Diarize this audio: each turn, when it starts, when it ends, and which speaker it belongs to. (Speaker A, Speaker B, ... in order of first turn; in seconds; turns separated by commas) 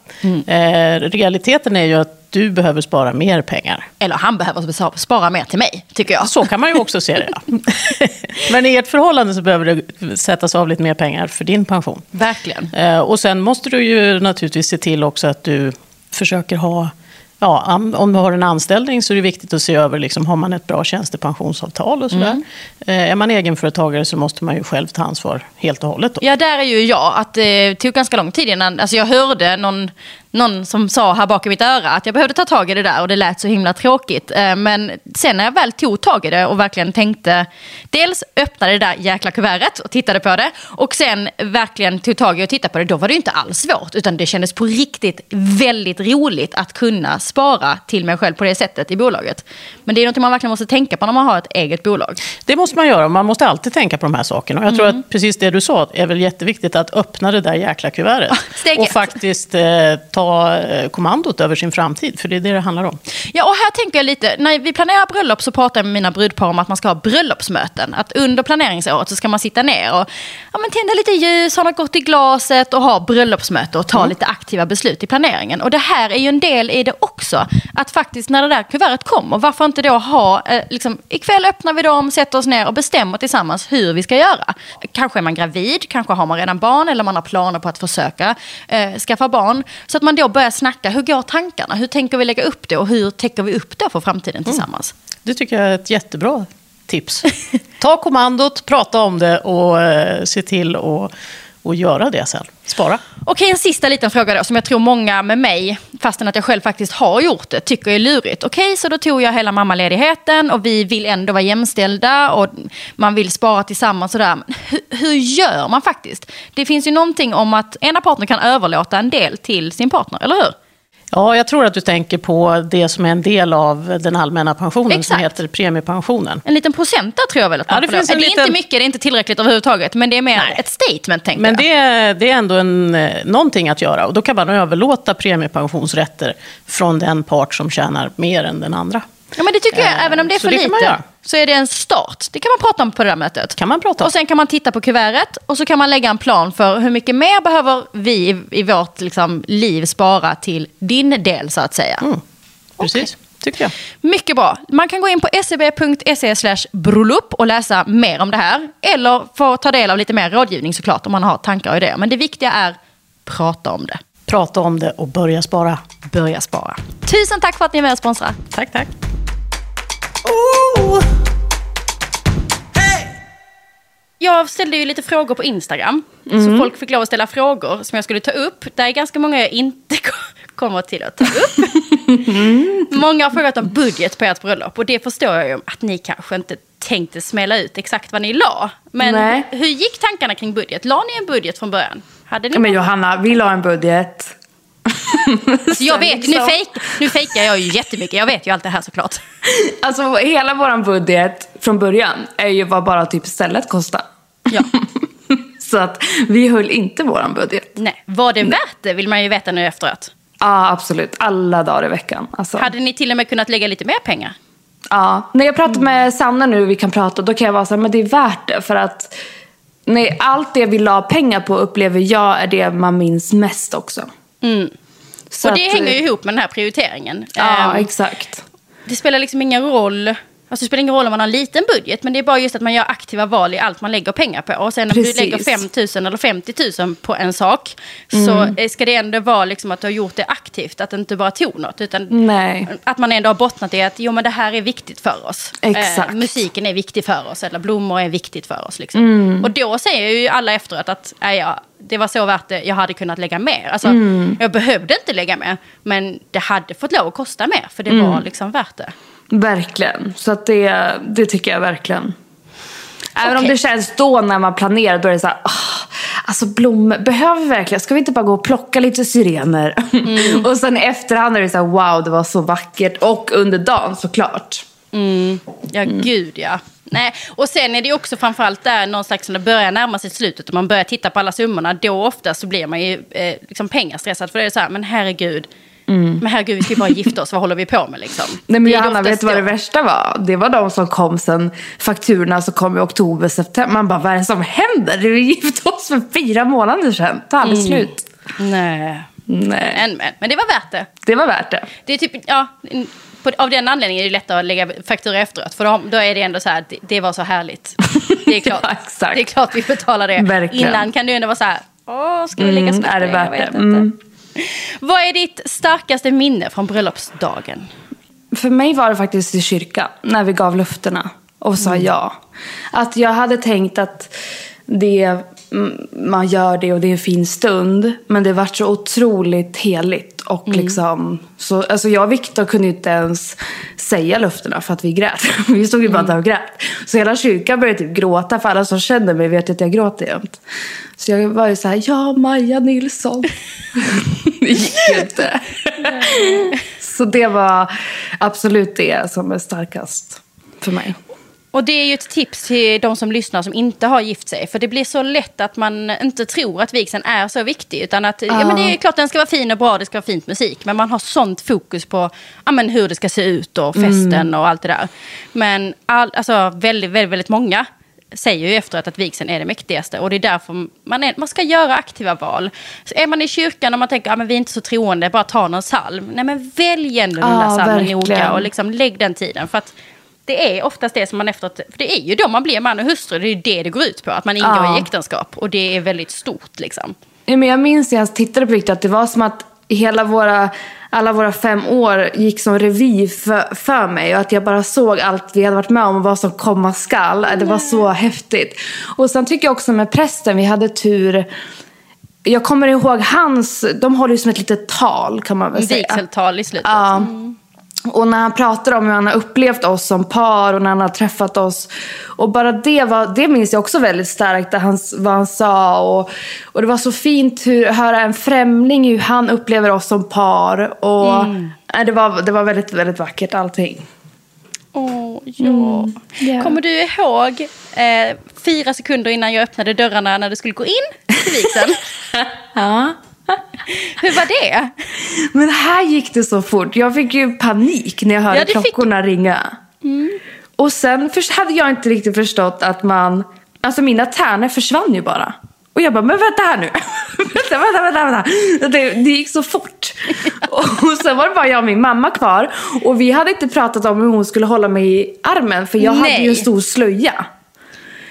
Speaker A: 0.4-3.9, Speaker B: 4.0-6.5, Speaker A: 6.2-12.1, Speaker B: 12.1-12.7, Speaker A: 12.7-26.2, Speaker B: 22.1-22.4, Speaker B: 26.2-52.2, Speaker A: 52.4-63.0, Speaker B: 54.7-55.0, Speaker B: 58.3-59.1, Speaker B: 63.3-94.9, Speaker A: 95.2-101.1, Speaker A: 101.6-103.0, Speaker B: 103.2-120.5, Speaker A: 121.1-126.4, Speaker B: 124.9-125.3, Speaker B: 126.4-131.6, Speaker A: 127.7-128.6, Speaker A: 131.4-139.1, Speaker B: 139.3-152.0, Speaker A: 139.7-141.0, Speaker A: 143.6-144.1, Speaker B: 152.8-153.1, Speaker A: 152.8-153.7, Speaker B: 154.0-164.0, Speaker A: 164.3-165.8, Speaker B: 166.0-168.4, Speaker A: 168.5-168.9, Speaker A: 170.3-171.0, Speaker B: 174.2-192.8, Speaker C: 176.3-176.7, Speaker C: 182.1-183.0, Speaker C: 189.0-189.5, Speaker C: 192.5-194.3, Speaker C: 194.9-197.1, Speaker B: 195.7-199.2, Speaker C: 199.4-204.0, Speaker C: 204.6-207.7, Speaker B: 207.8-210.1, Speaker C: 210.4-212.7, Speaker B: 212.6-214.3, Speaker C: 214.9-219.1, Speaker C: 219.9-224.1, Speaker B: 224.4-224.7, Speaker C: 225.3-226.0, Speaker B: 225.4-227.9, Speaker C: 227.4-228.4, Speaker B: 228.9-258.9, Speaker C: 234.9-235.6, Speaker C: 238.1-238.5, Speaker C: 242.1-242.7, Speaker C: 245.6-246.4, Speaker C: 248.9-249.5, Speaker C: 253.8-254.4, Speaker C: 257.9-258.2, Speaker C: 259.3-262.1, Speaker C: 263.1-274.7, Speaker B: 263.2-263.5, Speaker B: 270.0-270.5, Speaker B: 274.9-285.5, Speaker C: 285.9-286.9, Speaker B: 286.2-289.4, Speaker C: 288.5-298.0, Speaker B: 297.4-299.1, Speaker C: 299.3-299.8, Speaker B: 299.7-300.9, Speaker C: 301.0-301.7, Speaker B: 301.8-317.7, Speaker C: 307.9-309.2, Speaker C: 310.2-310.9, Speaker C: 312.4-313.9, Speaker C: 318.3-322.2, Speaker C: 322.7-324.1, Speaker C: 324.7-340.4, Speaker B: 330.5-330.8, Speaker C: 341.0-351.0, Speaker B: 345.8-346.6, Speaker B: 351.5-379.7, Speaker C: 358.3-358.8, Speaker C: 363.7-364.3, Speaker C: 377.2-378.5, Speaker B: 380.3-386.9, Speaker C: 384.4-384.9, Speaker C: 387.3-401.3, Speaker B: 397.4-397.8, Speaker C: 402.2-406.0, Speaker B: 405.5-407.4, Speaker C: 406.6-407.1, Speaker C: 407.9-423.9, Speaker B: 421.0-421.5, Speaker B: 424.7-431.8, Speaker C: 425.4-426.6, Speaker C: 432.2-433.4, Speaker B: 433.7-434.7, Speaker C: 435.0-439.6, Speaker B: 438.3-438.9, Speaker B: 439.8-440.2, Speaker C: 440.6-457.2, Speaker B: 455.8-456.5